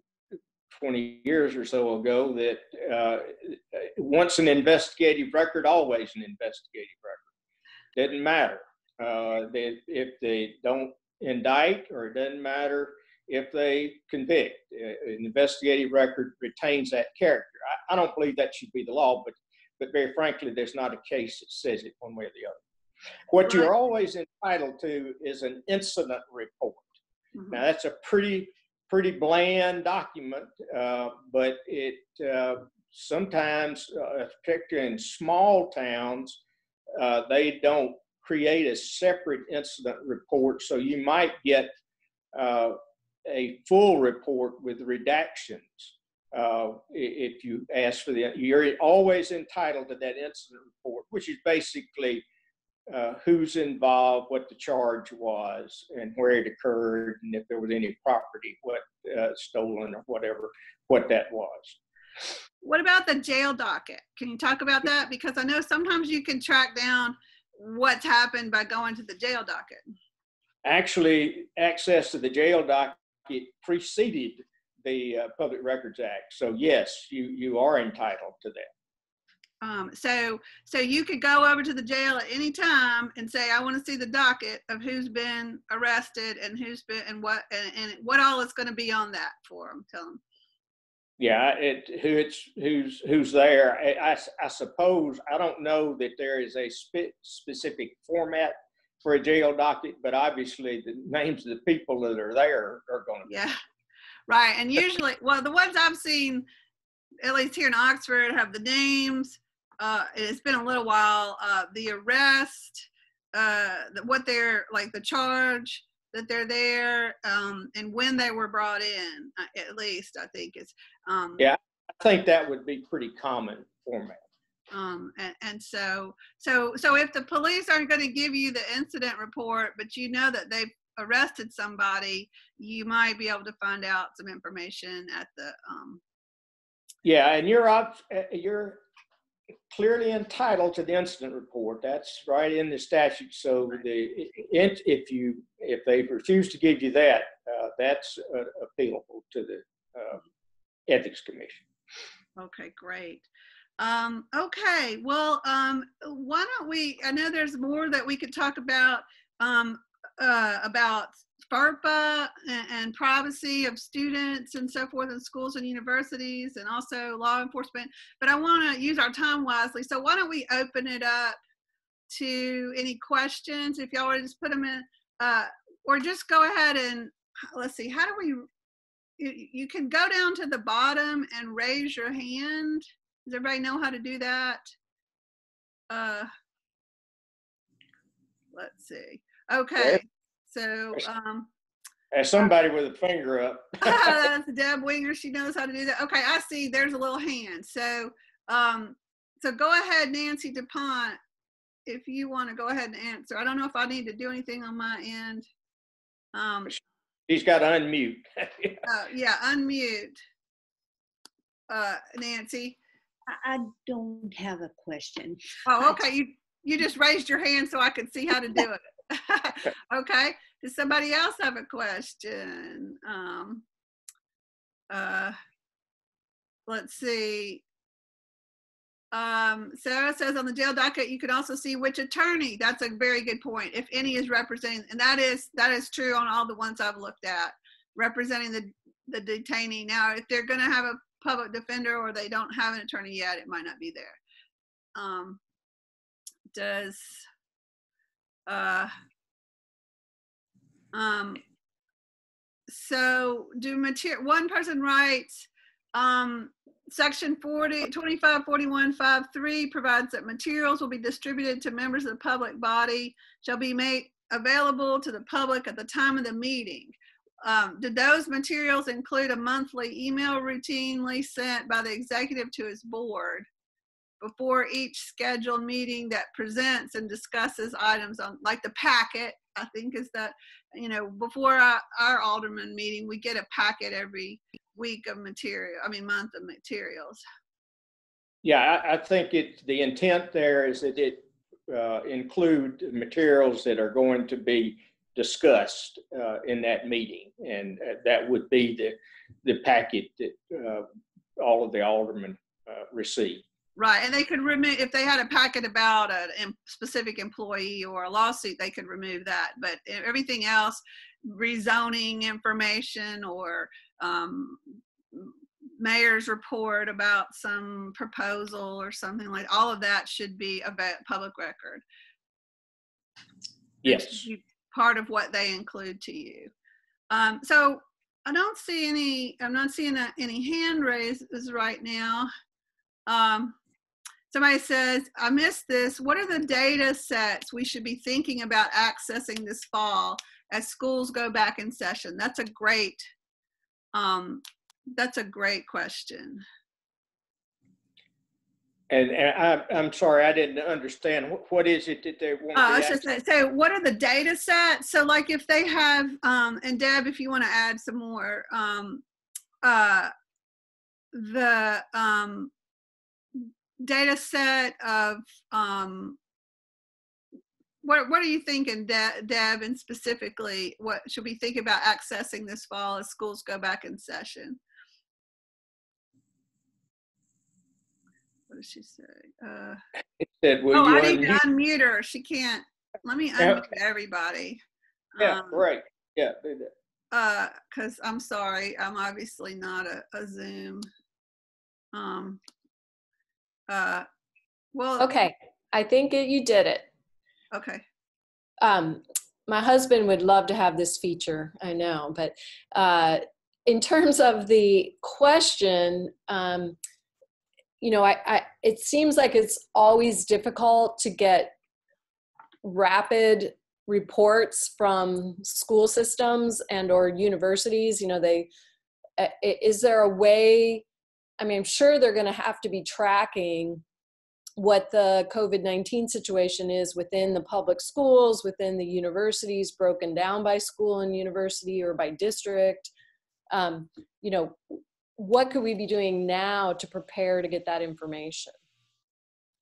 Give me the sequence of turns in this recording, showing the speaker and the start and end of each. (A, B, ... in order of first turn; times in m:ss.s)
0:00.7-0:07.2 A
0:08.0-0:22.6 A
0:23.3-0:26.9 A
0:27.5-0:36.4 A
0:37.0-0:41.7 A
0:42.3-0:52.2 A
0:52.9-1:01.8 A
1:02.6-1:09.8 B
1:10.6-1:18.7 A
1:19.6-1:30.2 B
1:31.2-1:43.3 A
1:43.3-1:43.6 B
1:44.3-1:46.5 B
1:47.2-2:01.5 B
2:01.4-2:04.2 A
2:04.7-2:16.0 B
2:17.0-2:18.8 A
2:19.7-2:30.2 A
2:30.9-2:31.6 A
2:32.4-2:33.3 B
2:33.8-2:51.4 B
2:52.1-2:58.5 B
2:59.2-3:04.6 B
3:05.9-3:06.3 B
3:08.5-3:11.5 B
3:12.1-3:14.2 A
3:13.8-3:21.2 B
3:21.9-3:25.5 B
3:26.3-3:26.8 B
3:27.3-3:28.8 A
3:28.8-3:30.2 B
3:31.7-3:32.8 B
3:33.3-3:36.0 C
3:35.6-3:43.6 B
3:44.9-3:45.4 B
3:46.7-3:47.6 B
3:49.1-4:04.2 B
4:05.0-4:05.4 B
4:06.5-4:07.3 B
4:08.5-4:08.9 B
4:10.9-4:11.4 B
4:12.7-4:33.5 B
4:34.2-4:47.2 B
4:48.4-5:00.8 A
5:01.4-5:03.4 A
5:03.8-5:21.8 B
5:23.8-5:24.3 A
5:23.8-5:26.5 B
5:27.1-5:32.3 B
5:33.1-5:33.6 B
5:34.3-5:43.0 B
5:43.9-5:44.4 B
5:45.0-5:46.4 B
5:48.9-5:53.0 A
5:52.6-5:59.0 B
5:59.6-6:00.1 B
6:01.1-6:02.5 B
6:03.4-6:06.2 B
6:07.8-6:14.6 B
6:18.5-6:19.8 B
6:20.2-6:21.4 A
6:20.7-6:24.6 B
6:23.4-6:23.7 A
6:25.2-6:25.6 B
6:25.2-6:26.7 A
6:27.1-6:30.9 B
6:31.9-6:32.4 B
6:33.7-6:34.1 B
6:34.8-6:35.1 B
6:35.0-6:36.9 D
6:37.5-6:37.8 B
6:38.6-6:46.8 D
6:47.8-6:51.6 D
6:52.6-6:58.5 D
6:59.2-7:00.8 D
7:01.4-7:03.8 D
7:04.6-7:12.9 D
7:13.5-7:18.6 D